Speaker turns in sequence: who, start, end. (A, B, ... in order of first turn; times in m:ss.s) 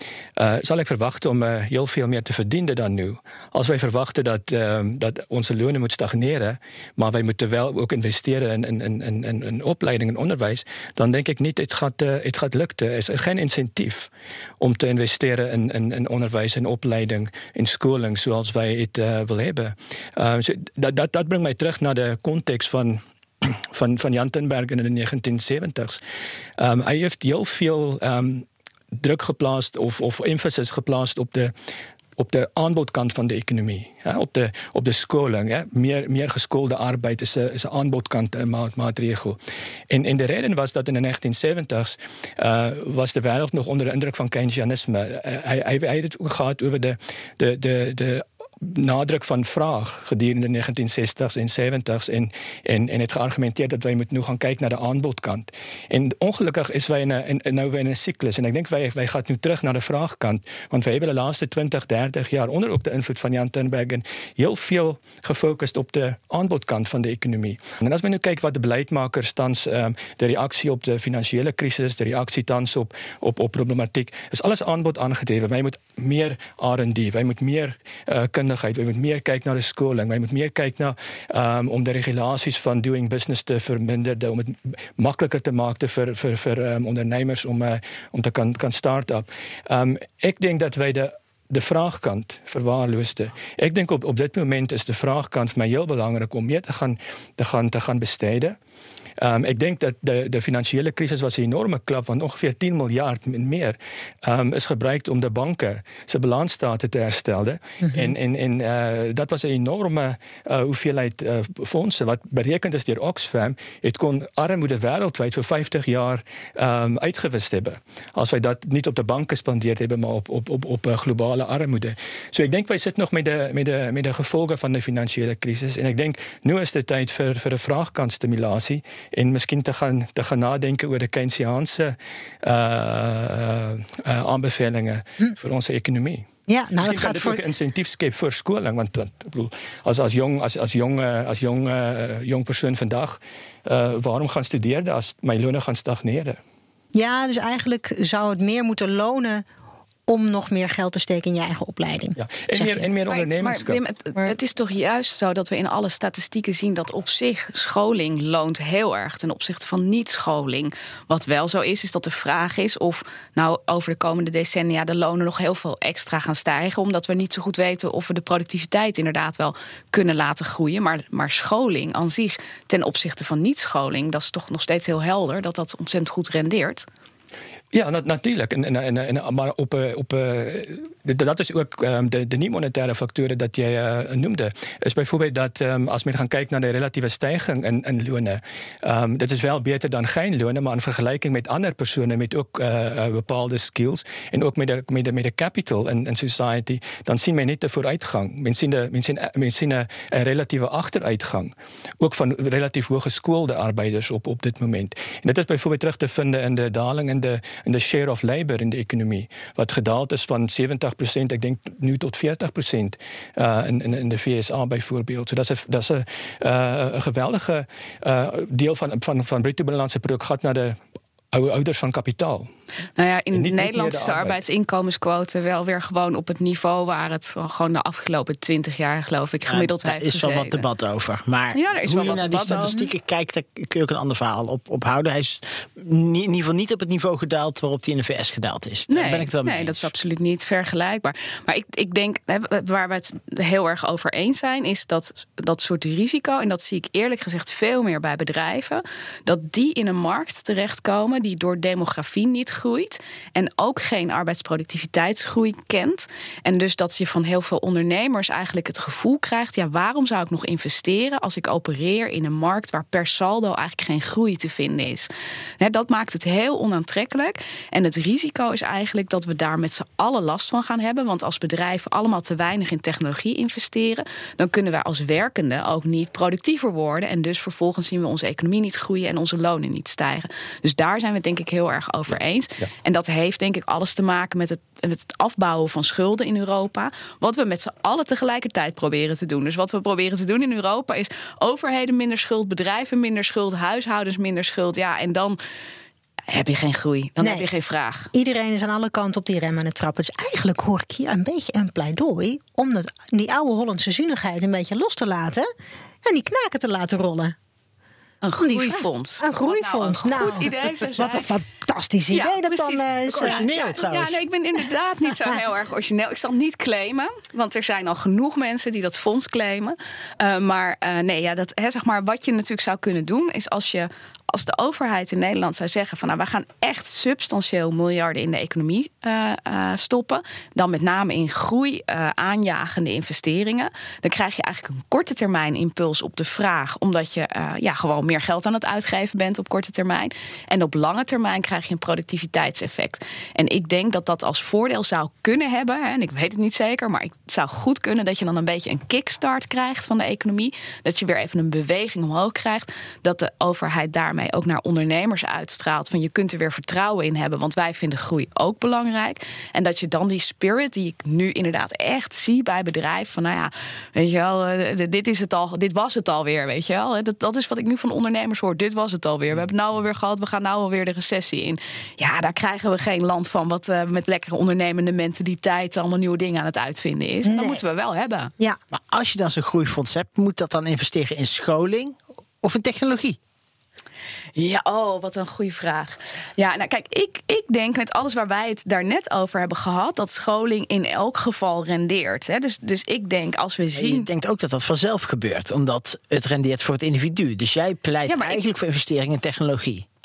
0:00.4-0:14.1 A
0:14.6-0:26.0 A
0:26.6-0:31.5 A
0:32.2-0:39.4 A
0:39.9-1:38.6 A
1:39.2-2:16.2 A
2:16.5-2:17.4 B
2:16.8-2:26.4 A
2:27.0-2:29.4 B
2:30.1-2:32.2 B
2:32.2-2:33.8 A
2:32.6-2:56.9 C
2:57.7-3:40.8 A
3:41.3-3:42.5 A
3:43.0-3:50.6 C
3:43.3-3:44.4 A
3:49.5-3:59.9 D
3:51.5-3:52.8 C
3:58.9-4:25.1 C
4:25.6-4:55.4 C
4:56.3-4:58.1 C
4:57.2-4:57.5 B
4:58.1-5:05.5 B
5:06.0-5:07.4 B
5:08.2-5:11.3 C
5:08.4-5:13.5 B
5:12.1-6:18.3 C
5:13.1-5:14.2 D
6:17.2-6:17.6 B
6:18.7-6:23.2 D
6:24.4-6:34.1 C
6:33.8-6:39.8 D
6:38.1-6:38.4 C